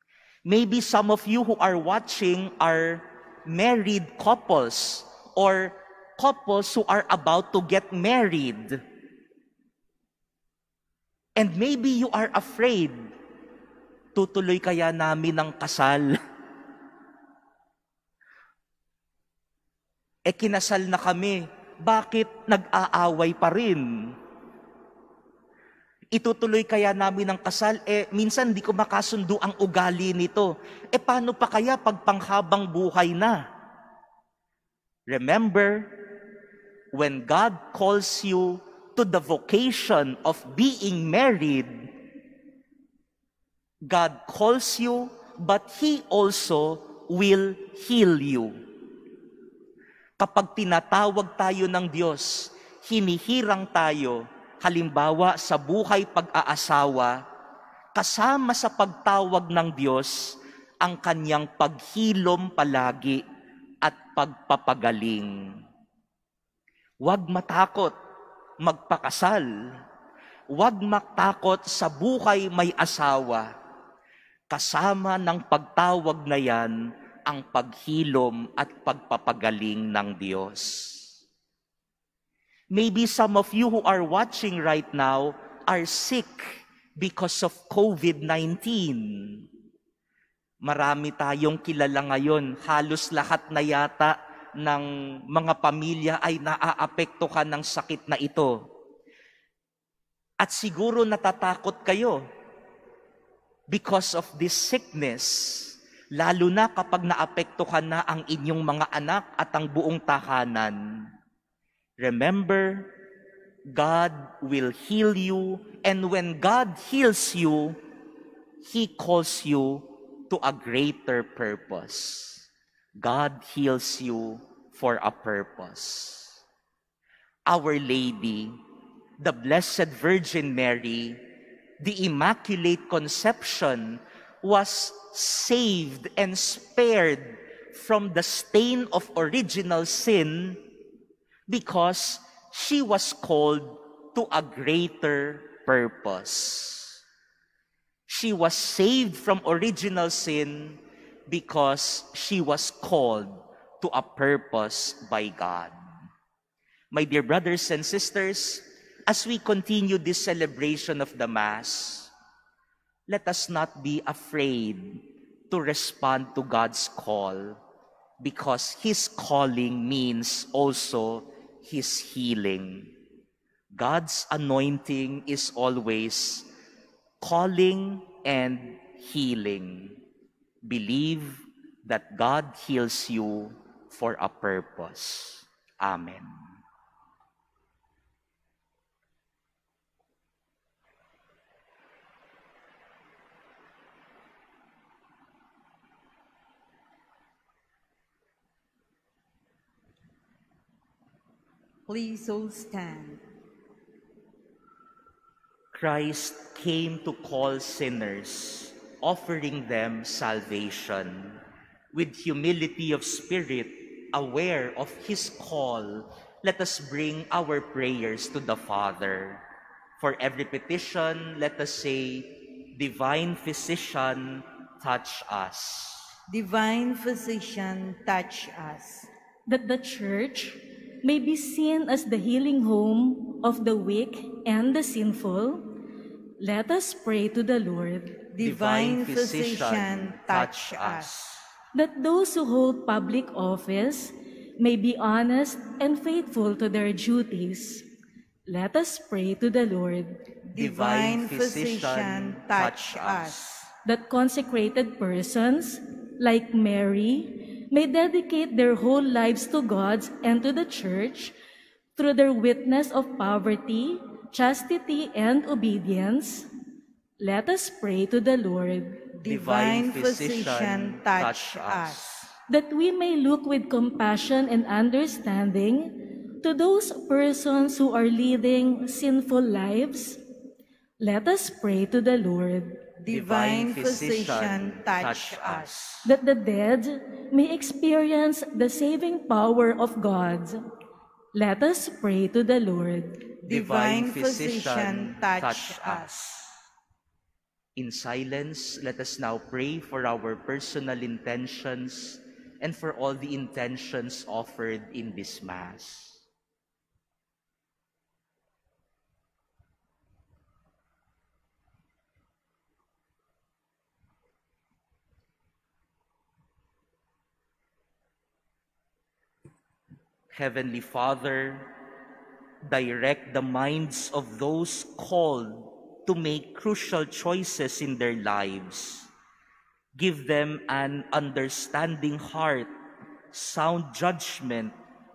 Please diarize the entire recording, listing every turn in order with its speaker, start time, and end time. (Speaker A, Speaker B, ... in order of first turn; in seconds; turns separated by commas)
Speaker A: 0.4-8.8, Speaker A: 11.4-13.0, Speaker A: 14.1-16.2, Speaker A: 20.2-24.1, Speaker A: 26.1-33.4, Speaker A: 35.1-36.0, Speaker A: 36.9-41.9, Speaker A: 43.9-48.5, Speaker A: 50.2-57.2, Speaker A: 57.9-63.2, Speaker A: 63.8-65.4, Speaker A: 67.0-67.9, Speaker A: 68.6-69.5, Speaker A: 70.5-73.5, Speaker A: 74.5-76.7, Speaker A: 77.2-81.1, Speaker A: 82.7-89.4, Speaker A: 90.6-98.6, Speaker A: 100.4-102.2, Speaker A: 103.7-110.8, Speaker A: 112.0-112.9, Speaker A: 113.7-117.8, Speaker A: 118.6-122.5, Speaker A: 123.0-126.4, Speaker A: 127.5-128.6, Speaker A: 129.2-131.2, Speaker A: 131.8-140.6, Speaker A: 141.5-147.0, Speaker A: 148.1-155.7, Speaker A: 156.9-162.1, Speaker A: 163.1-167.6, Speaker A: 168.2-172.9, Speaker A: 173.7-176.5, Speaker A: 177.2-180.0, Speaker A: 180.6-186.4, Speaker B: 201.9-203.2, Speaker A: 205.7-211.4, Speaker A: 211.9-219.4, Speaker A: 220.0-226.1, Speaker B: 226.3-229.1, Speaker C: 229.5-235.7, Speaker C: 236.4-238.2, Speaker B: 238.3-241.1, Speaker A: 238.4-241.4, Speaker C: 241.7-247.9, Speaker C: 248.5-250.2, Speaker B: 250.4-253.4, Speaker A: 250.6-253.7, Speaker C: 253.8-261.3, Speaker C: 261.9-266.5, Speaker C: 267.2-269.0, Speaker B: 269.1-272.0, Speaker A: 269.3-272.4, Speaker C: 272.5-280.2, Speaker C: 281.0-282.8, Speaker B: 283.0-285.7, Speaker A: 283.1-286.1, Speaker C: 286.1-290.6, Speaker C: 291.4-293.2, Speaker B: 293.4-296.1, Speaker A: 293.5-296.5, Speaker A: 297.8-306.2, Speaker A: 320.3-321.7, Speaker A: 322.6-329.1, Speaker A: 329.9-332.7, Speaker A: 333.3-334.7